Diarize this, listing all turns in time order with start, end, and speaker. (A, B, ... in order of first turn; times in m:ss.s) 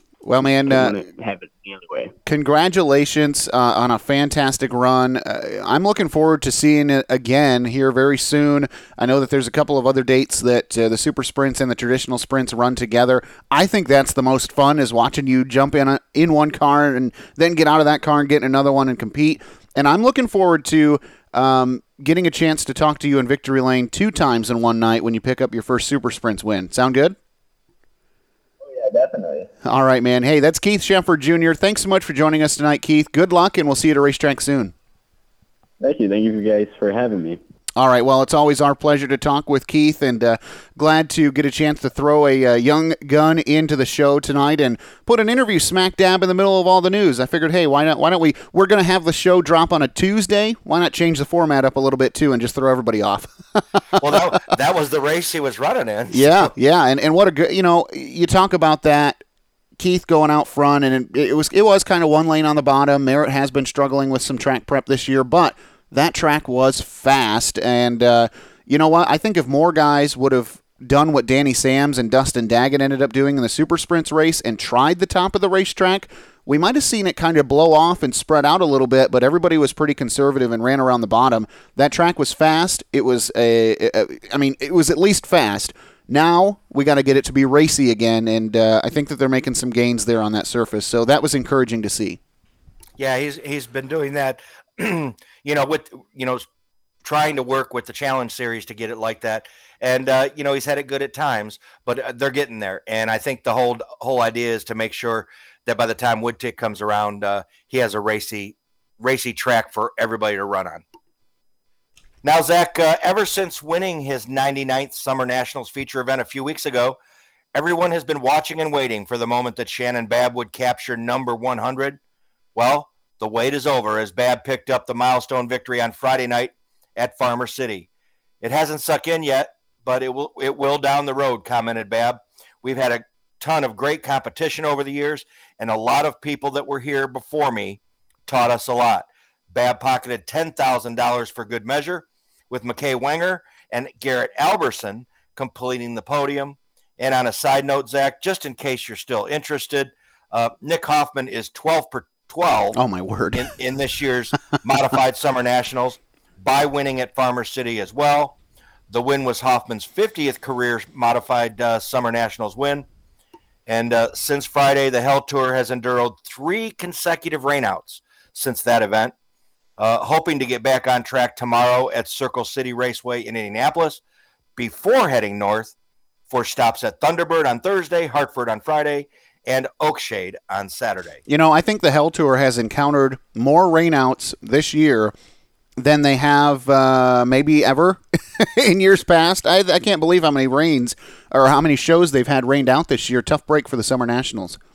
0:00.2-0:01.0 A
0:00.6-0:02.1 B
0:02.3-0:27.2 A
0:28.7-0:29.5 B
0:29.6-0:34.7 A
0:35.8-0:37.4 B
0:37.8-0:53.3 A
0:54.0-0:56.5 C
0:56.1-0:59.2 A
0:59.8-1:32.2 A
1:33.0-1:36.4 C
1:37.0-1:50.8 C
1:52.2-1:57.0 C
1:57.6-2:02.0 C
2:02.6-2:07.9 C
2:08.4-2:32.8 C
2:32.7-2:33.5 A
2:33.4-2:38.4 C
2:38.9-2:42.9 C
2:43.7-2:49.1 C
2:49.8-2:54.0 C
2:54.6-2:55.7 C
2:56.3-3:01.2 C
3:01.3-3:05.1 A
3:05.8-3:14.6 A